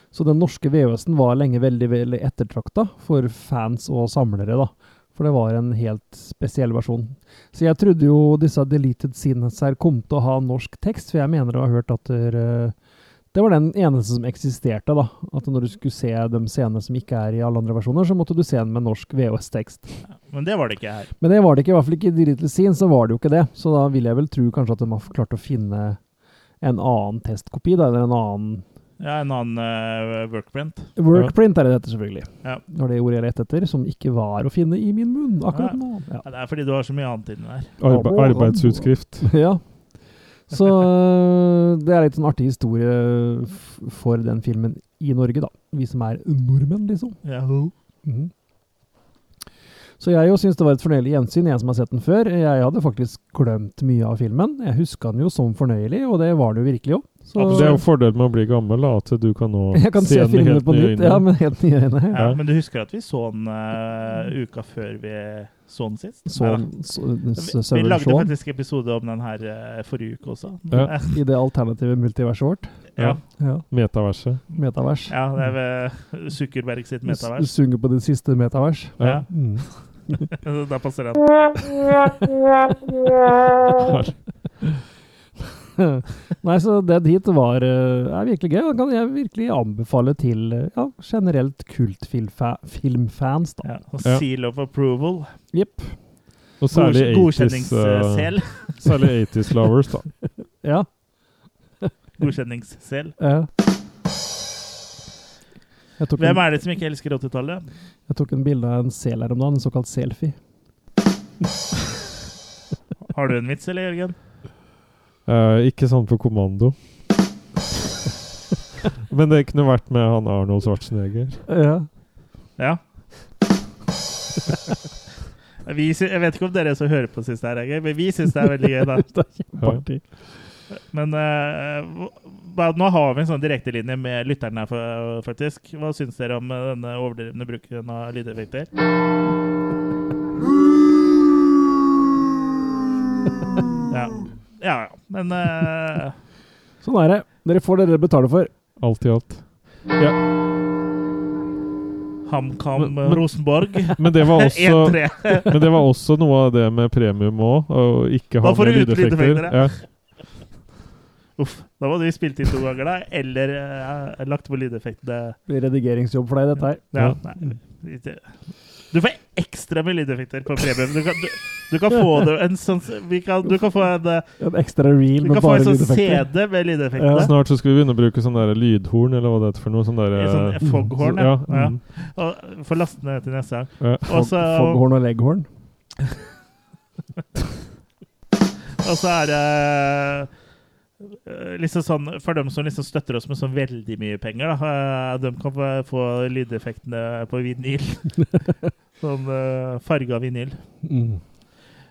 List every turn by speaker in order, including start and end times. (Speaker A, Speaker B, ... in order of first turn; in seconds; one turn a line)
Speaker A: 0.1-12.8
Speaker A: 13.3-19.9
Speaker B: 20.3-21.1
Speaker A: 21.2-26.0
Speaker A: 26.6-28.6
Speaker B: 29.0-30.9
Speaker A: 31.0-36.2
Speaker B: 35.5-37.7
Speaker C: 37.8-39.3
Speaker A: 37.8-39.6
Speaker A: 40.5-47.2
Speaker B: 47.2-47.7
Speaker A: 48.1-48.3
Speaker A: 50.0-57.8
Speaker B: 57.4-57.8
Speaker C: 57.5-61.3
Speaker A: 59.7-62.3
Speaker B: 62.1-66.7
Speaker C: 62.1-62.4
Speaker A: 66.3-68.3
Speaker B: 67.4-71.2
Speaker A: 71.0-72.8
Speaker C: 73.0-74.4
Speaker A: 73.4-73.7
Speaker A: 74.5-75.1
Speaker B: 75.1-77.5
Speaker A: 77.1-80.3
Speaker C: 79.0-79.3
Speaker B: 79.0-79.3
Speaker B: 80.4-81.8
Speaker C: 83.8-84.2
Speaker A: 85.8-93.7
Speaker B: 93.6-95.3
Speaker A: 95.5-96.0
Speaker C: 96.6-100.1
Speaker B: 96.7-99.0
Speaker A: 100.6-100.9
Speaker B: 102.2-103.2
Speaker A: 103.2-103.5
Speaker A: 106.0-106.5
Speaker B: 106.2-107.7
Speaker A: 108.1-110.4
Speaker B: 113.1-114.1
Speaker C: 115.3-116.8
Speaker C: 119.1-121.5
Speaker A: 121.5-121.9
Speaker B: 125.7-129.1
Speaker A: 129.0-130.1
Speaker C: 129.6-129.8
Speaker B: 130.9-138.7
Speaker B: 143.9-146.2
Speaker A: 146.8-148.5
Speaker C: 148.8-150.2
Speaker B: 152.3-155.6
Speaker C: 152.8-153.2
Speaker C: 153.9-159.8
Speaker B: 158.4-159.8
Speaker B: 161.4-165.4
Speaker A: 165.5-166.8
Speaker B: 166.9-168.3
Speaker B: 168.9-174.4
Speaker A: 174.4-176.3
Speaker B: 175.2-177.3
Speaker A: 177.0-177.3
Speaker C: 177.2-181.8
Speaker B: 180.1-184.8
Speaker A: 180.6-180.9
Speaker A: 184.1-185.5
Speaker B: 188.8-190.3
Speaker B: 191.1-198.4
Speaker B: 199.0-200.6
Speaker A: 200.8-201.2